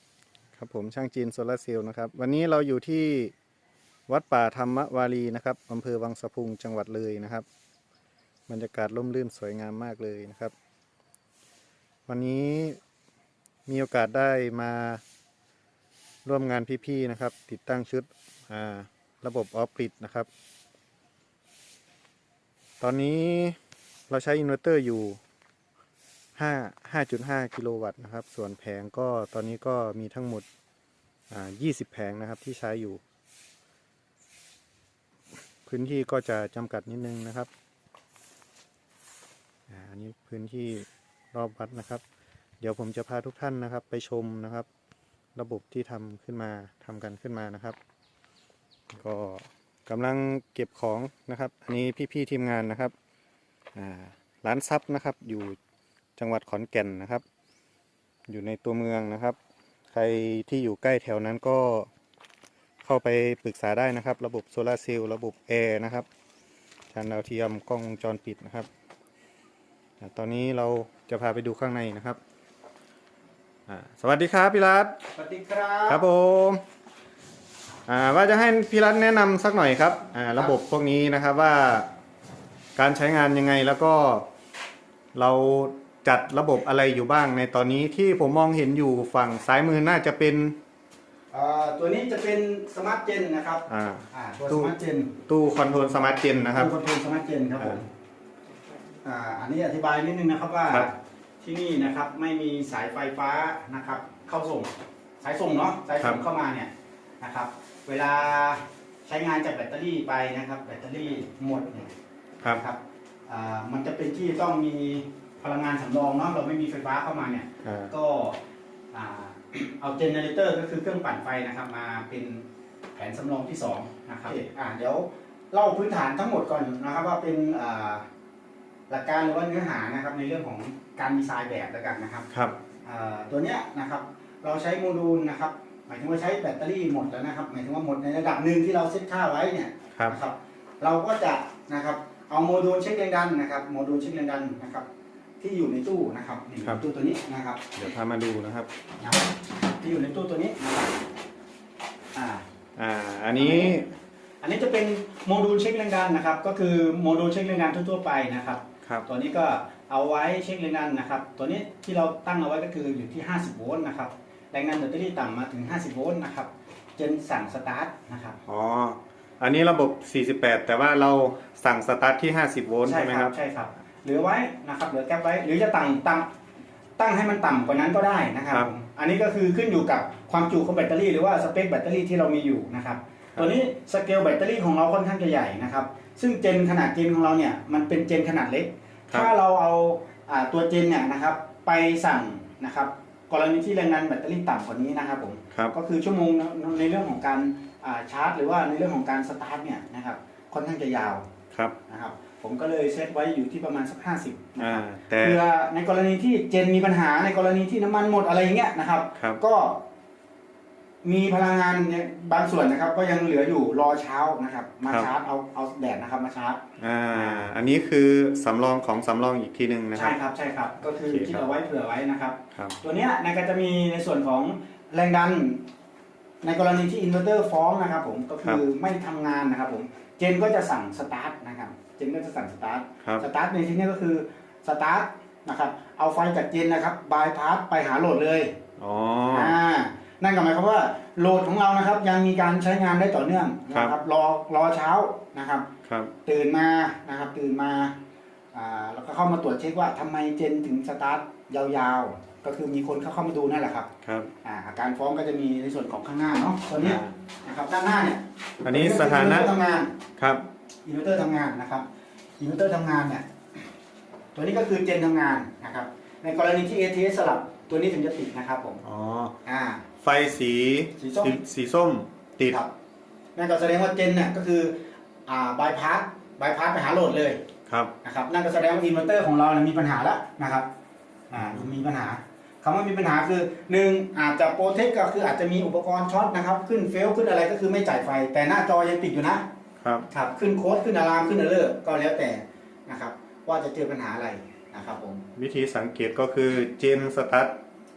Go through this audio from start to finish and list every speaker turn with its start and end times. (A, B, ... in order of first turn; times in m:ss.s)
0:00.6-0:03.3 A
0:04.1-0:07.5 A
0:08.5-0:10.5 A
0:12.1-0:12.8 A
0:13.7-0:15.0 A
0:16.2-0:20.3 A
0:22.8-0:23.6 A
0:24.1-0:25.2 A
0:26.4-0:30.4 A
0:31.3-0:33.0 A
0:35.6-0:37.5 A
0:39.7-0:42.0 A
0:42.6-0:44.7 A
0:45.3-0:47.8 A
0:48.9-0:52.9 A
0:53.7-0:55.6 A
0:56.2-0:57.2 A
0:58.3-0:59.4 A
0:59.9-1:01.9 A
1:02.8-1:06.1 A
1:06.9-1:08.7 A
1:10.0-1:12.2 A
1:13.7-1:15.0 A
1:15.2-1:16.0 B
1:15.9-1:16.6 A
1:17.9-1:21.9 A
1:22.8-1:24.3 A
1:25.1-1:30.6 A
1:31.3-1:35.1 B
1:33.7-1:34.7 A
1:35.3-1:36.7 A
1:36.6-1:37.9 B
1:39.0-1:51.9 B
1:52.5-1:58.4 B
1:57.6-1:57.9 A
1:58.9-2:08.1 B
2:08.9-2:12.3 B
2:12.8-2:24.9 B
2:25.4-2:27.6 B
2:27.8-2:28.7 A
2:29.8-2:30.9 B
2:32.2-2:32.4 B
2:32.8-2:33.9 A
2:33.3-2:33.8 B
2:34.4-2:48.4 B
2:48.5-2:53.3 A
2:52.9-2:56.3 B
2:57.0-3:21.2 B
3:21.9-3:29.8 B
3:24.6-3:25.4 A
3:31.0-3:37.5 B
3:36.8-3:40.2 A
3:39.9-3:45.6 B
3:41.1-3:41.5 A
3:46.4-3:58.6 B
3:58.8-3:59.6 A
3:59.3-4:05.7 B
4:05.8-4:06.1 A
4:06.2-4:08.0 B
4:08.5-4:13.9 B
4:14.0-4:14.3 A
4:14.4-4:19.9 B
4:16.8-4:17.1 A
4:18.6-4:19.5 A
4:20.2-4:20.4 A
4:20.8-4:21.8 B
4:22.4-4:23.2 B
4:24.4-4:28.8 B
4:28.8-4:29.4 A
4:29.4-4:29.9 B
4:30.0-4:32.6 A
4:31.0-4:31.4 B
4:33.4-4:37.4 B
4:37.7-4:37.9 A
4:38.0-4:40.7 B
4:41.3-4:49.5 B
4:41.4-4:41.8 A
4:49.8-4:50.1 A
4:50.1-4:55.2 B
4:55.4-4:57.6 A